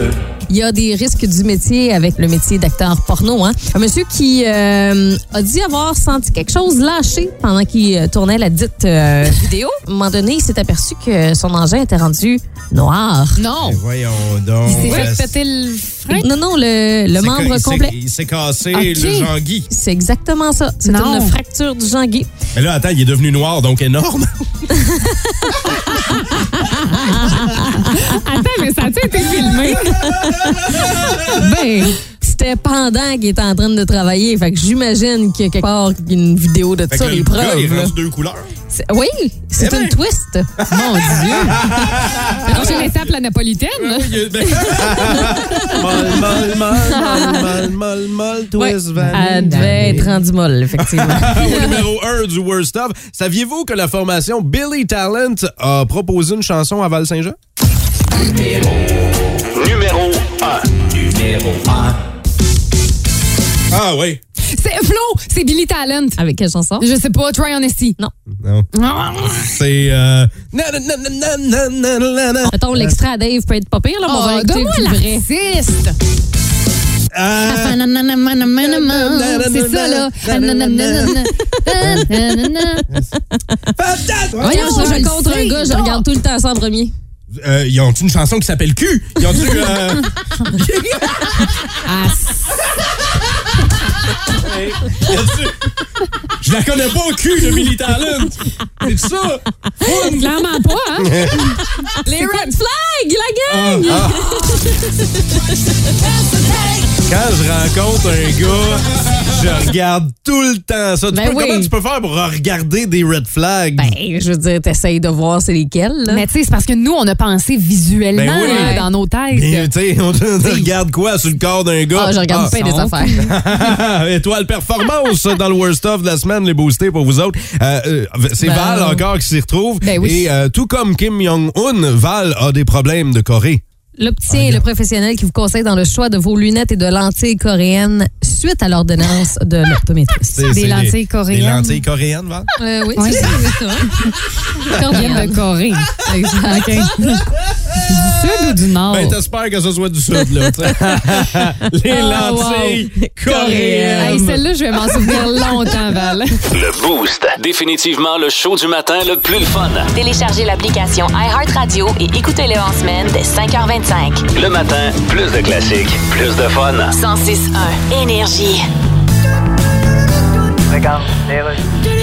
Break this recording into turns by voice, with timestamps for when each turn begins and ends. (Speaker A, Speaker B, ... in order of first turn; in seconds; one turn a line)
Speaker A: 0.5-13.4
Speaker B: 9.4-9.8
Speaker B: 13.4-13.8
Speaker C: 13.6-15.3
Speaker B: 14.7-16.3
Speaker A: 14.8-15.1
Speaker A: 16.1-17.9
Speaker C: 17.1-19.7
Speaker B: 18.7-19.3
Speaker A: 19.7-22.3
Speaker B: 20.8-21.4
Speaker C: 22.6-24.5
Speaker A: 24.7-28.2
Speaker B: 27.9-30.0
Speaker A: 29.4-30.9
Speaker C: 30.7-31.2
Speaker B: 31.3-32.0
Speaker A: 32.0-37.9
Speaker C: 36.9-38.5
Speaker A: 38.7-41.2
Speaker C: 39.6-40.0
Speaker C: 40.6-43.0
Speaker B: 40.7-41.7
Speaker B: 42.5-44.1
Speaker A: 42.5-42.9
Speaker C: 43.8-50.1
Speaker A: 45.1-45.8
Speaker B: 46.9-47.4
Speaker B: 48.6-50.1
Speaker A: 49.1-51.8
Speaker C: 50.8-57.4
Speaker D: 59.5-61.9
Speaker C: 63.7-64.2
Speaker B: 64.5-66.2
Speaker A: 66.2-66.9
Speaker B: 66.8-68.0
Speaker C: 68.4-68.7
Speaker B: 68.7-69.5
Speaker C: 69.4-73.0
Speaker A: 72.5-75.2
Speaker B: 74.1-76.0
Speaker C: 77.1-77.8
Speaker B: 77.5-82.8
Speaker C: 78.5-81.2
Speaker A: 81.6-82.0
Speaker C: 83.8-85.0
Speaker A: 84.4-86.9
Speaker B: 84.4-86.0
Speaker C: 87.3-91.7
Speaker B: 91.8-92.5
Speaker C: 94.3-95.7
Speaker C: 96.4-100.3
Speaker B: 99.8-102.6
Speaker C: 101.0-101.5
Speaker A: 101.9-105.4
Speaker C: 103.5-104.7
Speaker C: 107.0-114.0
Speaker A: 111.1-111.7
Speaker A: 113.8-116.2
Speaker B: 116.1-119.7
Speaker C: 118.2-122.5
Speaker A: 118.4-118.9
Speaker A: 121.9-123.3
Speaker B: 122.5-123.3
Speaker C: 123.2-133.6
Speaker A: 128.4-129.0
Speaker B: 129.8-130.3
Speaker A: 134.0-140.5
Speaker C: 134.3-134.6
Speaker C: 140.3-142.5
Speaker B: 140.5-141.8
Speaker A: 142.6-144.0
Speaker B: 143.0-143.4
Speaker A: 144.7-145.5
Speaker B: 144.9-147.2
Speaker A: 146.0-146.9
Speaker B: 147.9-149.2
Speaker C: 148.9-154.4
Speaker B: 151.9-152.8
Speaker A: 153.0-154.3
Speaker B: 153.9-156.4
Speaker C: 154.9-155.2
Speaker D: 156.5-159.9
Speaker E: 159.9-164.3
Speaker D: 164.3-167.0
Speaker E: 166.9-168.7